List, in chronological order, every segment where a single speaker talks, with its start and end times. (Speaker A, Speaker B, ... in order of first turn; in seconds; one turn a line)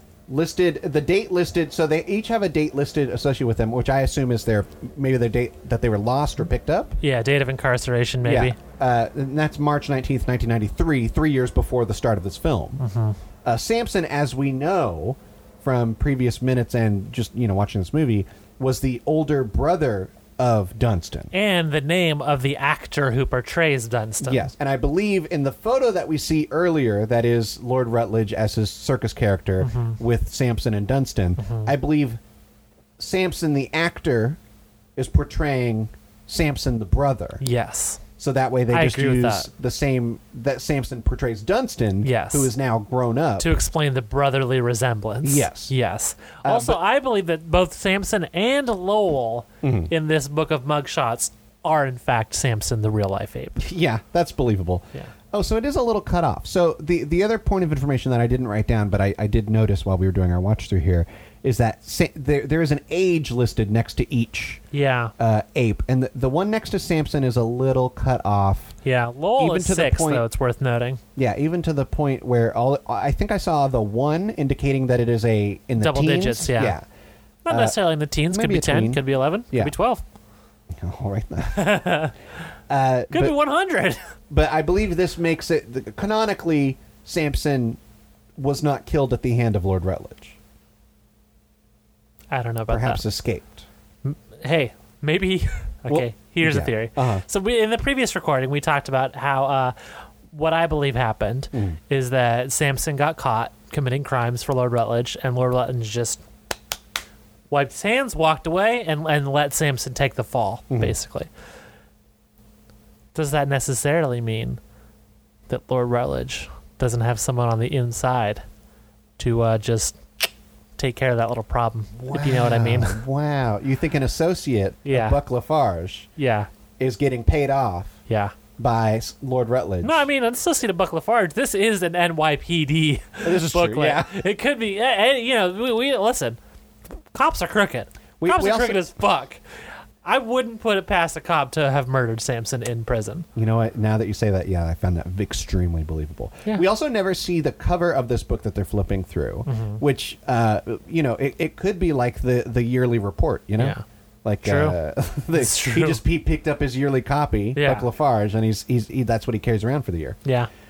Speaker A: 0.3-7.0
Speaker B: 7.0-8.6
Speaker A: 8.2-12.8
Speaker B: 12.8-13.2
Speaker A: 13.4-21.3
Speaker B: 21.3-24.5
Speaker A: 24.2-32.2
Speaker B: 29.6-30.0
Speaker B: 31.4-31.7
Speaker A: 33.0-34.4
Speaker A: 35.0-37.4
Speaker B: 37.4-38.0
Speaker A: 38.2-43.5
Speaker B: 38.7-39.5
Speaker B: 42.0-42.5
Speaker B: 43.4-53.6
Speaker A: 45.2-45.7
Speaker A: 46.4-46.8
Speaker A: 49.6-49.9
Speaker A: 53.6-64.6
Speaker B: 64.7-65.1
Speaker A: 65.2-68.8
Speaker B: 68.8-71.0
Speaker A: 69.4-70.2
Speaker A: 71.2-76.8
Speaker B: 75.8-76.8
Speaker B: 77.5-80.0
Speaker A: 77.5-77.8
Speaker A: 78.3-79.7
Speaker A: 80.7-82.0
Speaker B: 81.5-82.2
Speaker A: 82.7-83.4
Speaker B: 83.1-84.0
Speaker A: 84.3-87.8
Speaker A: 88.4-90.4
Speaker B: 92.3-93.0
Speaker A: 92.7-93.7
Speaker B: 94.0-99.8
Speaker A: 95.9-97.2
Speaker B: 100.3-106.2
Speaker A: 101.5-101.8
Speaker B: 107.5-111.3
Speaker A: 110.7-111.0
Speaker B: 113.1-114.6
Speaker B: 115.5-118.4
Speaker B: 119.2-123.0
Speaker A: 122.0-126.1
Speaker B: 124.9-125.2
Speaker B: 126.2-126.5
Speaker A: 126.8-128.0
Speaker B: 128.1-128.3
Speaker A: 128.6-130.1
Speaker B: 129.8-136.4
Speaker A: 133.2-134.2
Speaker B: 137.1-139.4
Speaker A: 138.2-138.8
Speaker B: 140.0-143.3
Speaker A: 143.3-160.2
Speaker B: 149.5-149.8
Speaker B: 153.6-153.8
Speaker B: 154.4-154.8
Speaker B: 155.4-156.0
Speaker B: 157.6-157.9
Speaker B: 160.2-160.5